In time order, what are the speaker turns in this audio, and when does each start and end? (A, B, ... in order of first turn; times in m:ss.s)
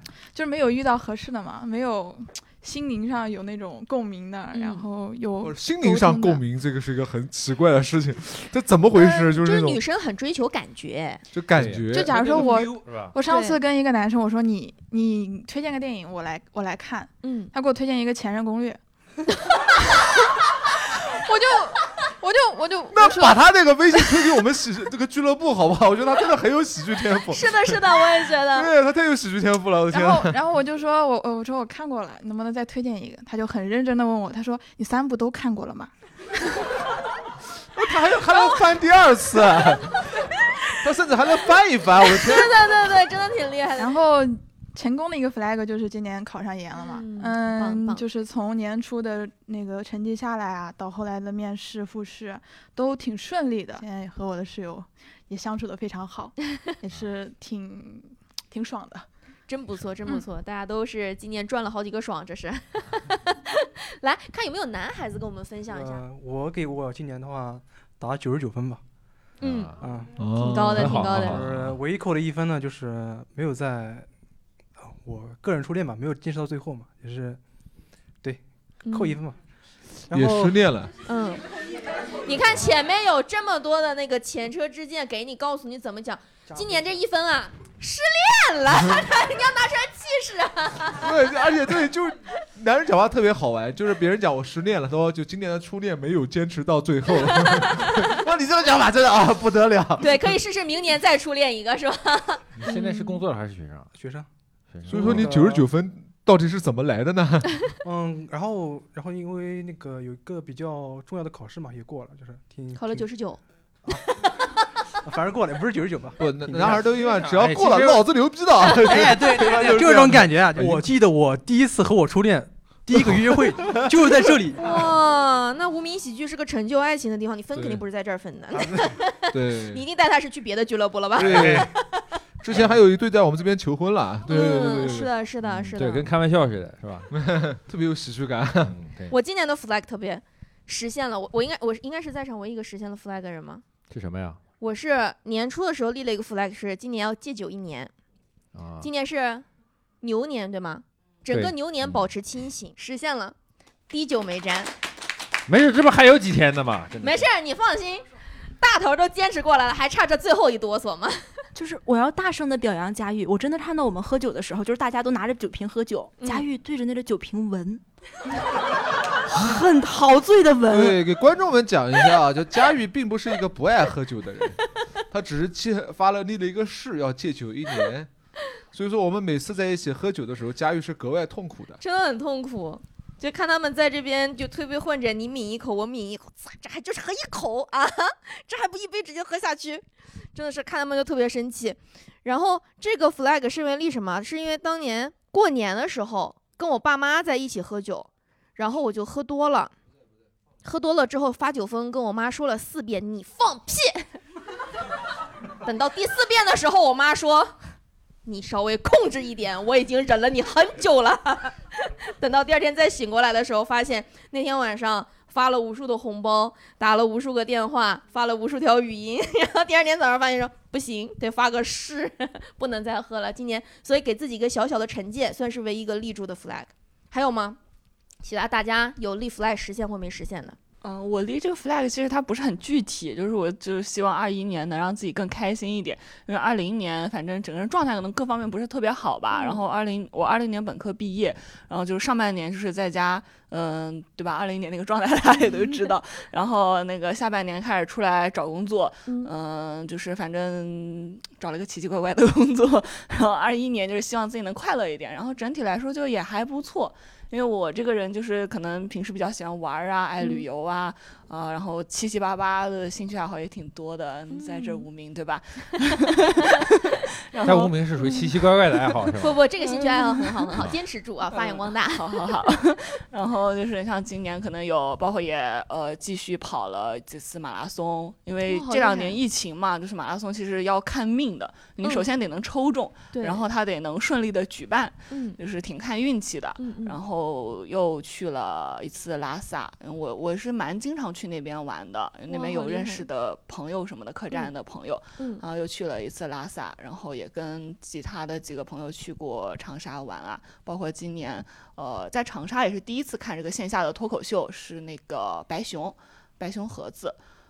0:00.3-0:06.4 A
0:04.5-0:04.9 B
0:05.4-0:09.8 C
0:08.9-0:11.2 B
0:11.3-0:12.5 C
0:11.6-0:13.2 D
0:11.9-0:18.8 A
0:13.3-0:13.6 B
0:17.2-0:17.5 B
0:21.2-0:23.4 A
0:22.9-0:27.8 C
0:27.3-0:28.7 B
0:28.5-0:30.4 C
0:29.9-0:35.9 A
0:37.8-0:40.0 C
0:38.3-0:38.6 B
0:40.8-0:42.6 C
0:42.0-0:44.0 B
0:43.8-0:59.1 A
0:46.8-0:48.0 B
0:59.5-1:06.0 B
1:05.7-1:08.8 E
1:09.4-1:09.7 B
1:09.4-1:09.9 D
1:09.8-1:10.2 E
1:10.2-1:11.3 C
1:10.4-1:11.4 B
1:10.7-1:11.8 D
1:10.9-1:14.1 E
1:14.8-1:17.4 E
1:18.2-1:19.4 E
1:18.9-1:19.2 B
1:20.1-1:20.6 E
1:20.1-1:20.9 C
1:21.0-1:21.4 B
1:22.2-1:31.1 B
1:26.5-1:26.9 E
1:31.0-1:40.3 C
1:37.2-1:38.1 B
1:40.0-1:43.2 B
1:42.6-1:43.9 D
1:43.9-1:44.3 E
1:44.7-1:45.3 D
1:44.9-1:47.6 C
1:44.9-1:45.7 E
1:47.8-1:53.1 E
1:52.8-1:53.4 B
1:55.0-1:57.0 E
1:56.2-2:00.8 C
1:57.0-1:58.0 D
1:58.8-2:04.6 E
2:04.6-2:11.8 B
2:08.6-2:08.9 E
2:09.3-2:09.8 C
2:11.2-2:11.7 C
2:11.2-2:11.7 D
2:12.4-2:15.1 C
2:14.3-2:16.1 B
2:15.5-2:17.1 D
2:17.1-2:18.8 C
2:18.6-2:19.2 D
2:19.1-2:23.6 B
2:23.9-2:24.4 D
2:24.6-2:27.9 B
2:28.5-2:28.9 D
2:28.8-2:29.4 B
2:30.0-2:33.4 B
2:31.3-2:32.0 D
2:33.9-2:34.7 B
2:35.5-2:37.3 D
2:37.0-2:38.0 B
2:38.6-2:41.3 B
2:41.6-2:47.8 F
2:46.2-2:46.5 B
2:49.3-2:51.0 F
2:50.7-2:54.6 C
2:55.1-2:58.1 C
2:58.7-3:01.8 C
3:01.8-3:09.8 B
3:10.4-3:19.7 B
3:20.6-3:24.1 B
3:25.6-3:27.5 B
3:28.3-3:47.6 B
3:48.2-3:50.6 B
3:50.8-4:27.8 G
3:59.3-3:59.6 B
4:20.2-4:20.4 B
4:24.3-4:24.9 B
4:27.4-4:29.4 D
4:29.2-4:32.2 B
4:29.6-4:30.6 G
4:31.3-5:07.2 G
4:38.5-4:39.2 B
4:43.1-4:43.4 B
4:45.1-4:45.4 B
4:46.6-4:47.0 B
4:52.3-4:53.1 B
4:55.2-4:55.4 B